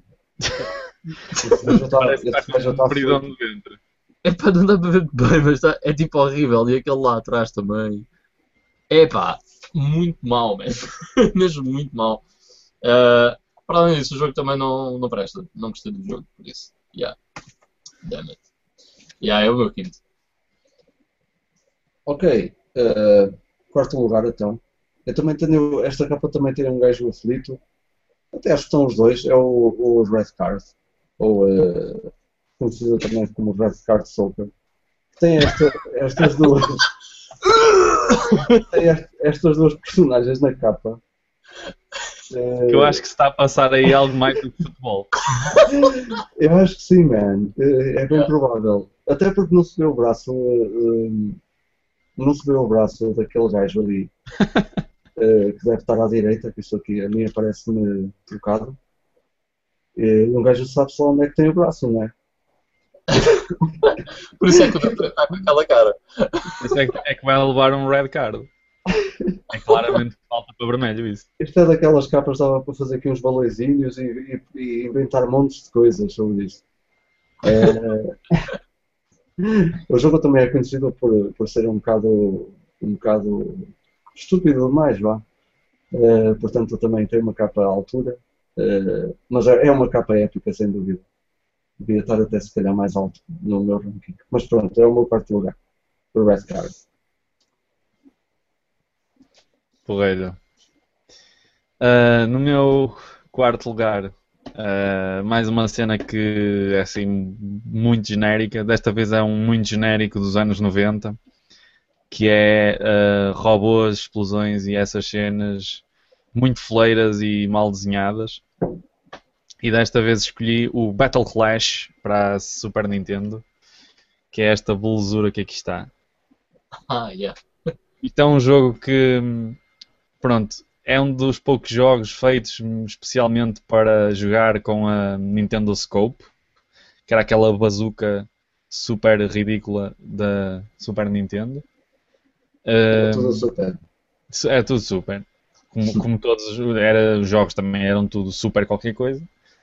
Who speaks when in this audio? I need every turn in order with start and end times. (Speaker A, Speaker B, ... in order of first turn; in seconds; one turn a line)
Speaker A: 1.4-1.7
Speaker B: 1.4-3.3
Speaker C: 1.6-3.8
Speaker A: 4.2-8.1
Speaker A: 8.9-12.2
Speaker A: 12.8-17.2
Speaker A: 18.0-18.4
Speaker A: 19.2-20.0
Speaker B: 22.1-27.6
Speaker B: 28.3-34.5
Speaker B: 35.2-36.8
Speaker A: 37.4-38.7
Speaker B: 38.4-41.0
Speaker B: 42.3-43.0
Speaker C: 42.7-45.1
Speaker A: 45.3-45.7
Speaker B: 45.7-51.4
Speaker B: 52.2-54.1
Speaker B: 55.2-58.8
Speaker B: 59.9-62.1
Speaker A: 63.1-66.8
Speaker B: 63.3-63.7
Speaker B: 64.5-64.8
Speaker C: 66.6-68.5
Speaker B: 68.9-69.4
Speaker C: 69.5-71.2
Speaker B: 71.4-76.6
Speaker B: 77.4-78.5
Speaker B: 79.4-85.2
Speaker B: 85.9-91.0
Speaker B: 91.8-95.6
Speaker B: 96.1-96.8
Speaker C: 99.8-100.4
Speaker C: 101.8-111.2
Speaker C: 112.1-115.8
Speaker C: 116.3-118.4
Speaker C: 119.6-123.4
Speaker C: 124.3-125.9
Speaker A: 126.9-127.3
Speaker C: 128.0-129.6
Speaker C: 130.2-136.3
Speaker C: 137.1-141.6
Speaker C: 142.7-143.4
Speaker B: 142.9-143.8
Speaker C: 144.3-149.3